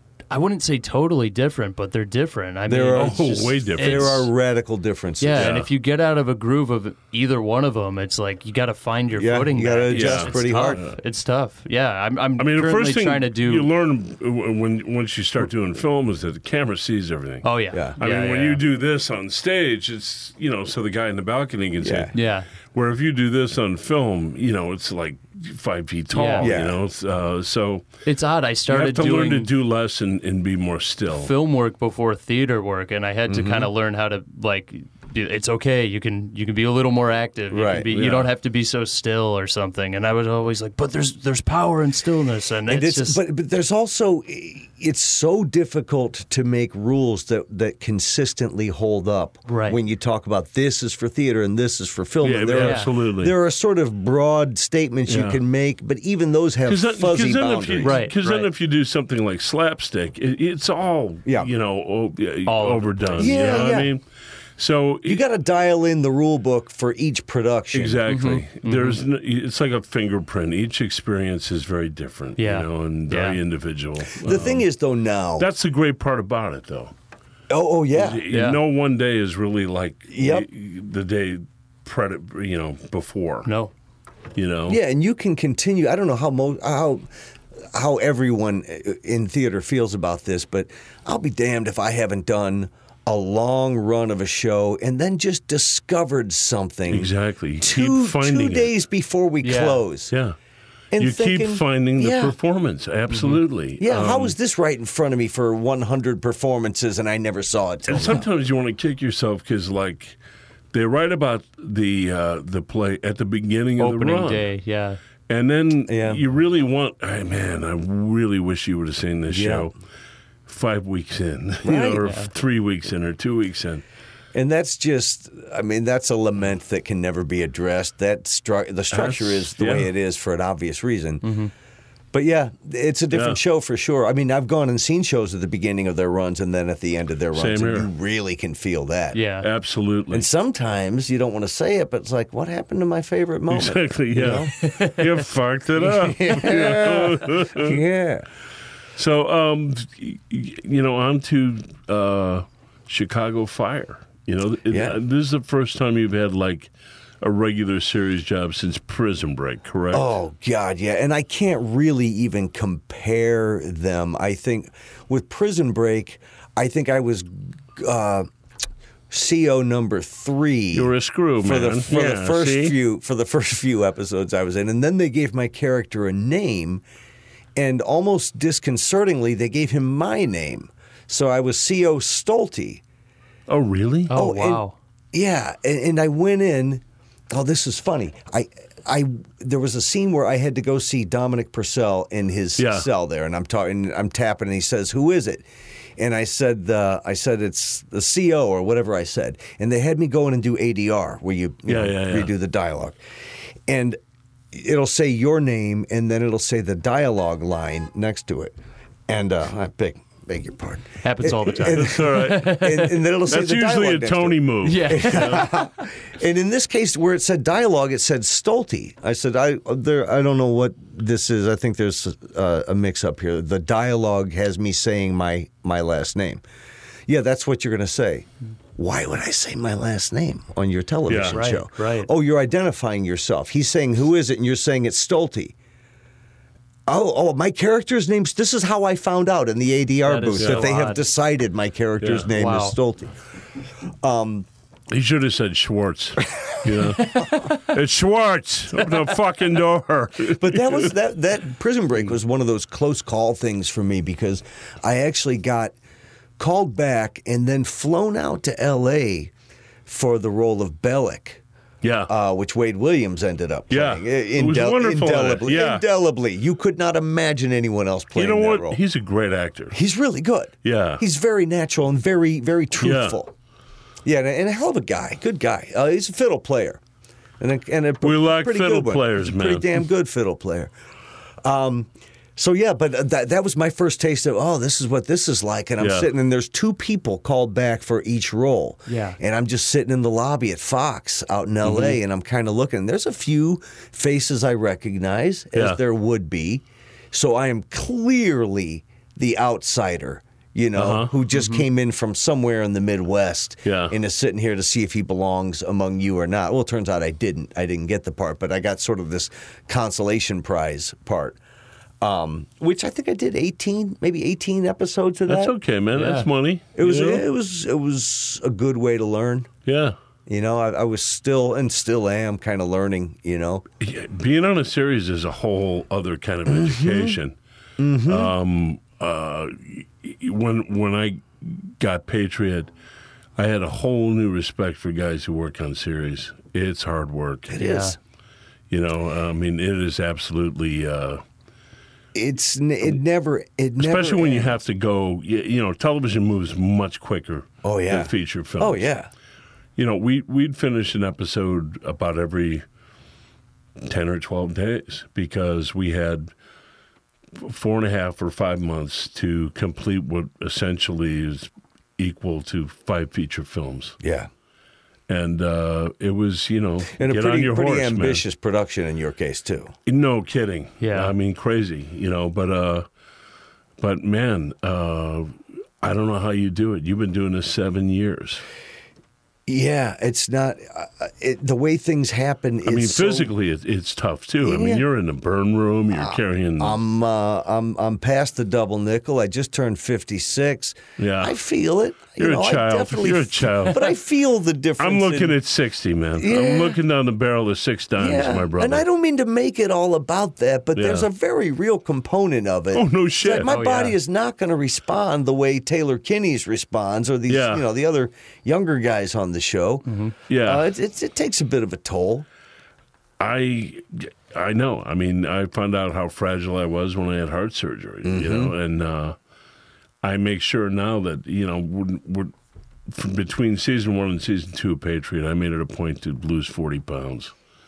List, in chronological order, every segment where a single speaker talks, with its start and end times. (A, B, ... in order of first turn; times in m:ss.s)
0:00.3-0:04.3 A
0:02.7-0:05.6 B
0:02.9-0:04.3 C
0:05.2-0:13.7 A
0:05.4-0:05.7 C
0:09.2-0:10.8 B
0:09.9-0:11.0 C
0:12.4-0:22.2 C
0:17.4-0:18.6 A
0:21.8-0:22.1 B
0:22.1-0:22.5 A
0:22.7-0:27.9 C
0:26.1-0:26.5 A
0:26.4-0:26.8 B
0:28.1-0:29.5 A
0:28.7-0:31.3 C
0:31.1-0:43.2 A
0:33.3-0:33.7 B
0:37.5-0:37.9 B
0:37.9-0:38.3 C
0:42.7-0:58.0 B
0:49.5-0:49.8 A
0:52.2-0:53.4 C
0:52.5-0:52.9 A
0:55.1-0:55.4 C
0:56.7-1:04.0 C
0:57.8-0:58.5 A
1:01.3-1:01.5 B
1:02.5-1:03.6 A
1:03.2-1:03.9 B
1:04.6-1:05.2 C
1:05.0-1:08.0 B
1:07.7-1:14.7 C
1:08.1-1:09.0 A
1:12.4-1:13.4 A
1:14.1-1:15.5 B
1:15.4-1:16.9 C
1:17.5-1:18.2 B
1:17.9-1:23.5 C
1:18.3-1:18.6 A
1:20.1-1:20.5 B
1:23.4-1:23.7 A
1:24.4-1:24.8 C
1:24.7-1:27.1 B
1:27.7-1:40.1 B
1:36.9-1:38.7 C
1:39.4-1:39.8 A
1:40.9-1:42.4 B
1:41.0-1:44.4 C
1:43.1-1:43.4 A
1:43.8-1:48.2 B
1:47.9-1:50.2 C
1:50.7-1:54.5 C
1:53.8-1:55.0 A
1:55.3-1:59.7 C
1:55.9-1:56.2 B
1:59.3-1:59.7 B
2:00.5-2:03.8 C
2:01.6-2:02.0 B
2:02.0-2:02.3 A
2:04.3-2:11.2 B
2:08.9-2:09.9 C
2:11.2-2:11.5 A
2:12.1-2:19.2 B
2:13.1-2:13.4 C
2:17.3-2:17.9 C
2:19.1-2:19.5 A
2:19.4-2:20.3 C
2:20.1-2:24.5 B
2:23.5-2:27.8 C
2:24.6-2:25.0 A
2:25.8-2:28.3 B
2:29.0-2:40.2 C
2:34.7-2:35.0 B
2:39.9-2:48.3 B
2:49.1-2:56.8 B
2:50.7-2:52.8 C
2:57.6-3:02.8 B
3:03.5-3:04.1 C
3:04.1-3:04.8 A
3:04.1-3:23.0 B
3:12.6-3:12.9 C
3:21.7-3:22.3 C
3:23.7-3:24.0 B
3:24.5-3:28.6 B
3:29.1-3:46.4 B
3:31.0-3:33.0 A
3:31.6-3:32.6 C
3:33.3-3:35.5 C
3:34.6-3:35.7 A
3:47.1-3:55.5 B
3:51.1-3:51.5 C
3:51.3-3:52.1 A
3:56.9-4:03.1 B
4:00.0-4:01.0 A
4:00.4-4:00.7 C
4:02.0-4:02.3 C
4:02.3-4:02.8 A
4:04.0-4:04.5 B
4:04.9-4:10.9 C
4:07.0-4:07.6 A
4:10.3-4:15.8 B
4:16.4-4:19.3 B
4:19.9-4:21.4 B
4:21.8-4:22.1 C
4:22.1-4:28.8 B
4:23.7-4:25.8 C
4:28.2-4:29.8 C
4:29.7-4:33.3 B
4:30.6-4:31.0 C
4:32.8-4:33.2 C
4:34.0-4:36.8 B
4:37.4-4:40.7 B
4:38.0-4:39.7 C
4:41.4-5:11.4 B
4:45.8-4:46.1 C
4:48.9-4:49.2 A
4:51.6-4:52.0 C
5:00.8-5:01.1 C
5:03.6-5:04.0 C
5:12.0-5:15.6 B
5:15.3-5:17.2 C
5:16.0-5:16.3 A
5:16.8-5:19.5 B
5:19.7-5:20.0 C
5:20.3-5:23.6 B
5:23.8-5:27.4 C
5:26.5-5:27.2 B
5:27.8-5:28.3 B
5:28.1-5:32.7 C
5:33.4-5:37.6 C
5:37.5-5:38.0 B
5:37.6-5:38.0 A
5:38.7-5:41.2 C
5:42.1-5:44.6 B
5:43.8-5:48.9 C
5:47.6-5:49.1 B
5:49.8-5:52.6 C
5:53.8-5:56.3 C
5:57.4-6:04.0 C
6:04.0-6:04.3 B
6:05.1-6:08.2 C
6:07.0-6:09.7 B
6:09.9-6:12.9 C
6:10.8-6:11.1 A
6:13.8-6:18.4 C
6:19.5-6:23.3 B
6:22.6-6:26.8 C
6:24.4-6:24.8 B
6:25.9-6:35.4 B
6:31.0-6:31.4 C
6:32.2-6:34.0 C
6:34.8-6:38.8 C
6:36.2-6:36.8 B
6:38.0-6:52.3 B
6:40.8-6:41.1 C
6:42.7-6:43.5 C
6:43.4-6:44.0 A
6:47.3-6:47.7 C
6:49.9-6:50.1 A
6:50.3-6:50.7 C
6:53.2-6:59.2 C
6:58.0-6:58.5 B
7:00.0-7:02.3 C
7:02.9-7:07.3 C